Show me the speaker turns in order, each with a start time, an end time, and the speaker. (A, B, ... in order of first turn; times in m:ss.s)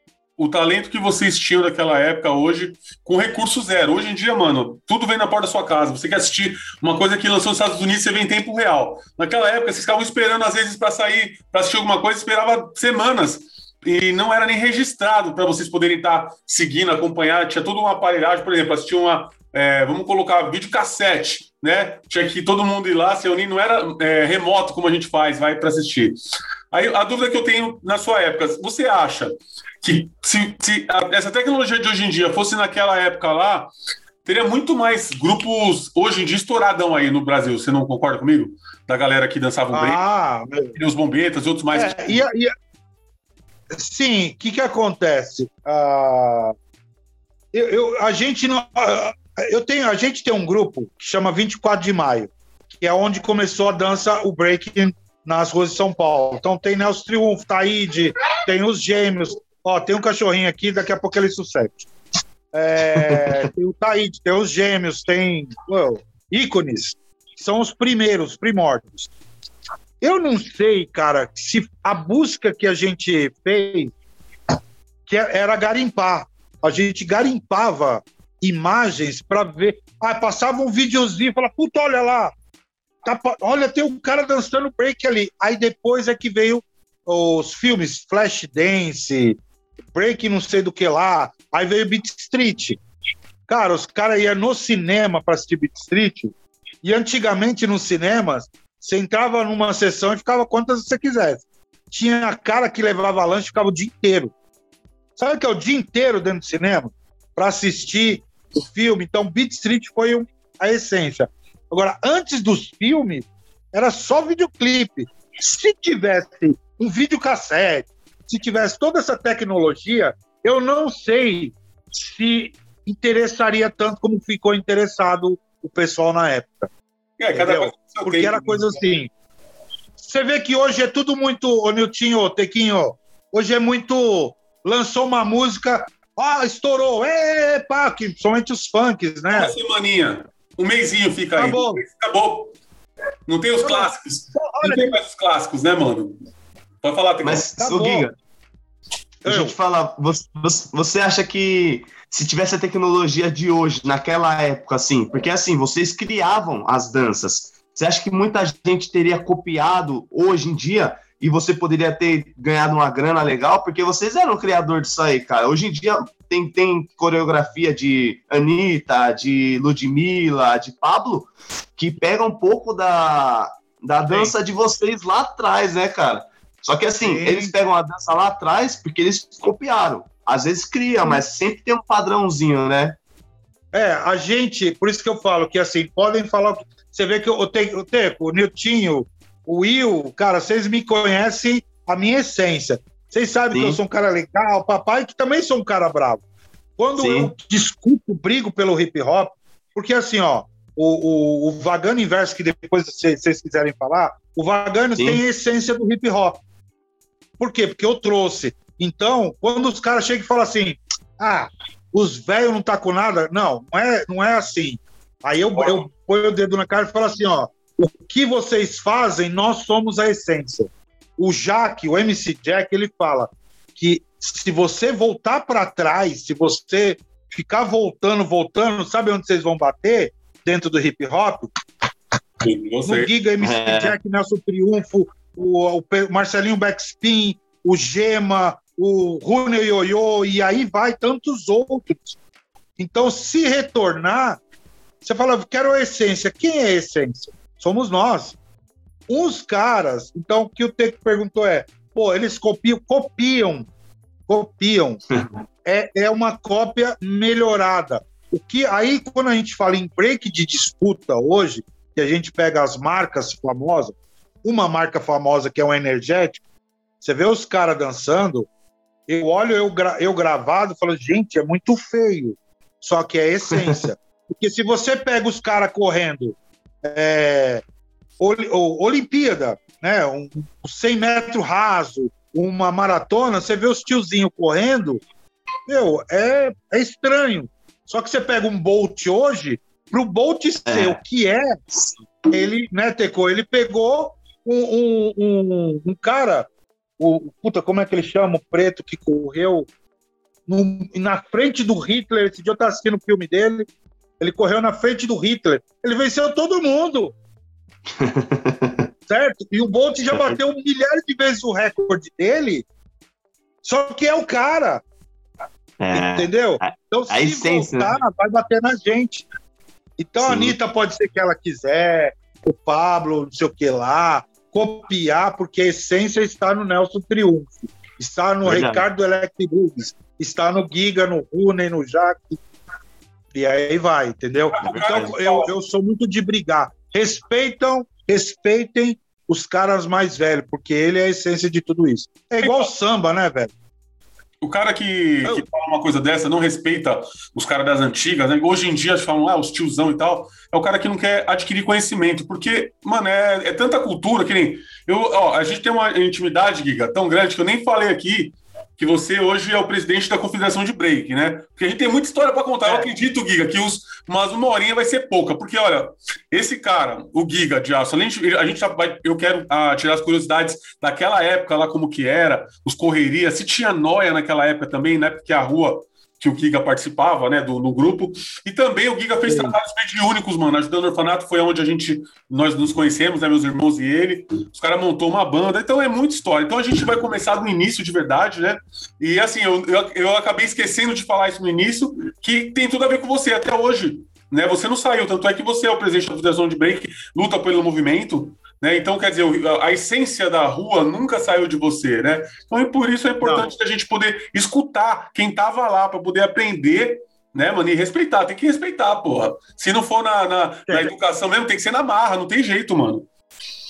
0:00.4-0:26.2 A
0:26.7-0:33.7 A
0:34.2-0:40.0 A
0:39.7-0:40.8 B
0:40.8-0:42.2 A
0:41.7-0:42.5 B
0:43.7-0:46.5 B
0:47.5-1:01.9 B
1:02.5-1:09.1 B
1:03.0-1:03.3 C
1:10.0-1:13.9 B
1:15.1-1:22.3 B
1:23.0-1:29.4 B
1:29.9-1:32.8 B
1:33.5-1:44.3 B
1:45.2-2:06.7 B
2:07.2-2:08.7 A
2:07.3-2:09.1 B
2:10.0-2:19.5 B
2:19.3-2:22.5 A
2:21.4-2:21.8 B
2:23.3-2:26.2 A
2:23.6-2:25.0 B
2:26.8-2:27.5 A
2:27.2-2:28.1 C
2:27.6-2:28.1 B
2:29.2-2:29.5 B
2:29.2-3:03.0 C
2:57.0-2:57.5 B
3:03.7-3:16.2 B
3:13.5-3:13.8 C
3:16.8-3:26.4 B
3:17.0-3:17.3 C
3:25.0-3:25.2 C
3:27.4-3:51.5 B
3:35.5-3:35.8 A
3:52.4-3:53.1 A
3:52.8-4:02.2 B
3:53.4-3:53.9 C
4:02.8-4:04.4 B
4:05.0-4:08.4 B
4:09.1-4:13.7 B
4:14.3-4:15.0 B
4:15.6-4:26.4 B
4:27.0-4:28.5 B
4:29.1-4:37.6 B
4:33.5-4:33.8 C
4:38.2-4:45.0 B
4:45.7-4:51.5 B
4:50.7-4:51.0 C
4:51.7-4:52.3 C
4:52.3-4:59.7 B
5:00.5-5:03.7 B
5:04.2-5:07.1 B
5:07.9-5:08.9 C
5:09.1-5:12.6 B
5:10.1-5:10.4 C
5:13.6-5:14.8 B
5:15.8-5:18.0 C
5:15.9-5:19.2 B
5:20.0-5:32.4 B
5:20.2-5:20.6 C
5:28.4-5:28.8 C
5:33.3-5:43.5 B
5:34.6-5:35.5 A
5:34.6-5:35.1 C
5:42.4-5:42.7 A
5:44.4-6:53.1 A
6:43.2-6:43.5 B